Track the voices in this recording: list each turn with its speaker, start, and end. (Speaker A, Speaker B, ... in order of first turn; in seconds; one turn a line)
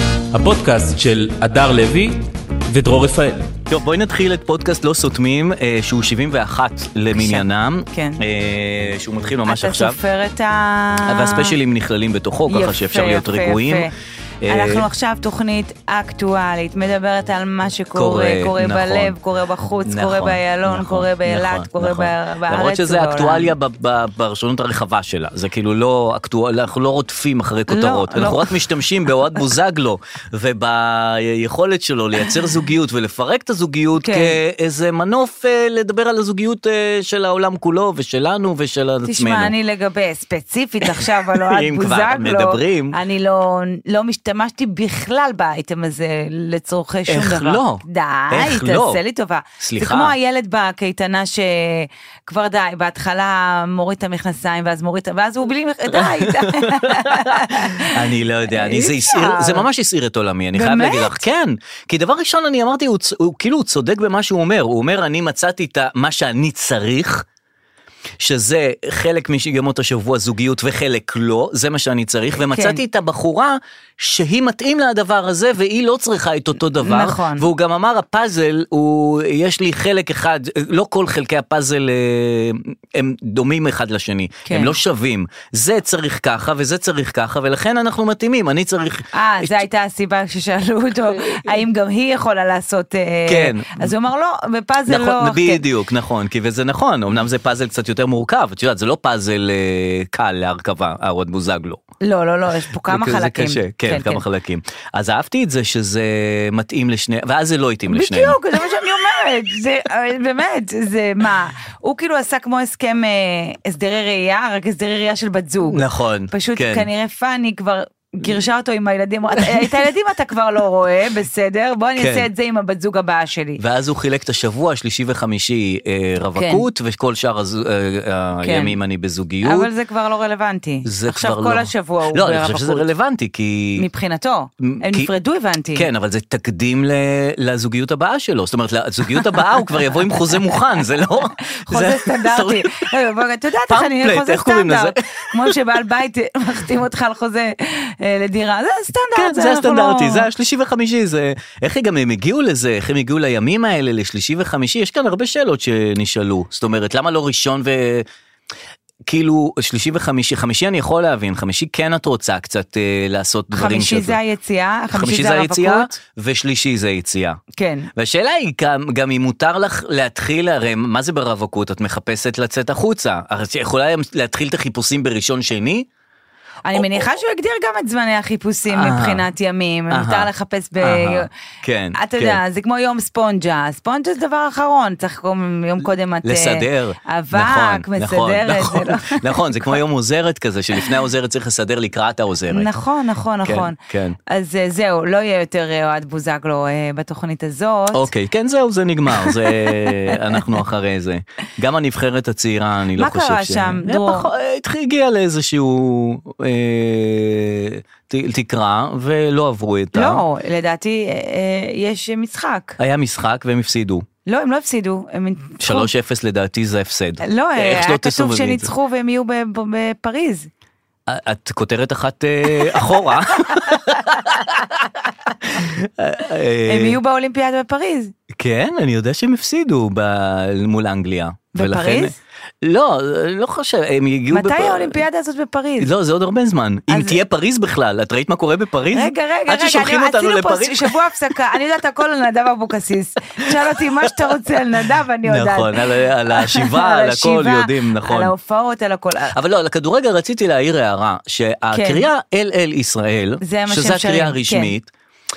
Speaker A: 0.3-3.5
Speaker B: 3.7-10.0
Speaker C: 7.1-8.2
Speaker C: 9.5-11.5
Speaker B: 11.1-13.9
Speaker C: 12.5-13.9
Speaker B: 14.4-14.9
Speaker C: 14.5-23.5
Speaker B: 17.9-19.2
Speaker B: 19.9-39.5
Speaker C: 27.7-28.6
Speaker C: 34.0-34.4
Speaker C: 39.1-59.7
Speaker B: 41.0-43.0
Speaker B: 47.1-49.0
Speaker B: 49.6-50.1
Speaker B: 55.9-67.3
Speaker C: 60.5-61.2
Speaker B: 68.2-89.7
Speaker C: 72.5-72.8
Speaker C: 76.8-77.5
Speaker C: 84.5-84.8
Speaker C: 89.1-95.6
Speaker B: 91.2-91.5
Speaker B: 93.3-93.9
Speaker B: 94.9-101.8
Speaker C: 102.0-104.2
Speaker B: 102.9-108.4
Speaker C: 107.9-123.6
Speaker B: 115.7-116.9
Speaker B: 119.4-119.7
Speaker B: 122.0-122.3
Speaker B: 123.6-129.7
Speaker C: 126.4-126.7
Speaker C: 128.4-128.8
Speaker C: 129.4-132.9
Speaker B: 130.8-133.9
Speaker C: 133.8-135.9
Speaker B: 134.6-135.1
Speaker B: 135.7-142.9
Speaker C: 139.2-140.0
Speaker C: 141.4-150.3
Speaker B: 143.7-145.6
Speaker B: 149.2-158.1
Speaker B: 159.1-164.2
Speaker C: 163.5-166.0
Speaker B: 164.9-167.4
Speaker C: 167.6-167.9
Speaker B: 168.0-175.9
Speaker C: 176.7-181.3
Speaker B: 176.7-177.1
Speaker B: 178.7-179.2
Speaker B: 179.9-182.4
Speaker C: 181.9-189.8
Speaker B: 186.2-192.7
Speaker C: 192.5-193.8
Speaker B: 193.4-194.2
Speaker C: 194.3-198.1
Speaker B: 197.9-210.2
Speaker C: 199.1-200.4
Speaker C: 203.0-204.3
Speaker C: 209.9-212.8
Speaker B: 212.8-214.1
Speaker C: 214.3-215.9
Speaker B: 215.6-218.7
Speaker C: 217.2-220.5
Speaker B: 221.1-227.0
Speaker C: 223.5-224.0
Speaker C: 226.7-228.1
Speaker B: 228.3-235.0
Speaker C: 231.6-232.2
Speaker C: 234.3-235.9
Speaker B: 235.8-241.4
Speaker C: 236.9-237.2
Speaker C: 238.9-245.8
Speaker B: 243.5-244.3
Speaker B: 245.2-248.3
Speaker C: 246.3-249.3
Speaker B: 249.3-254.9
Speaker C: 251.7-252.1
Speaker C: 253.4-254.7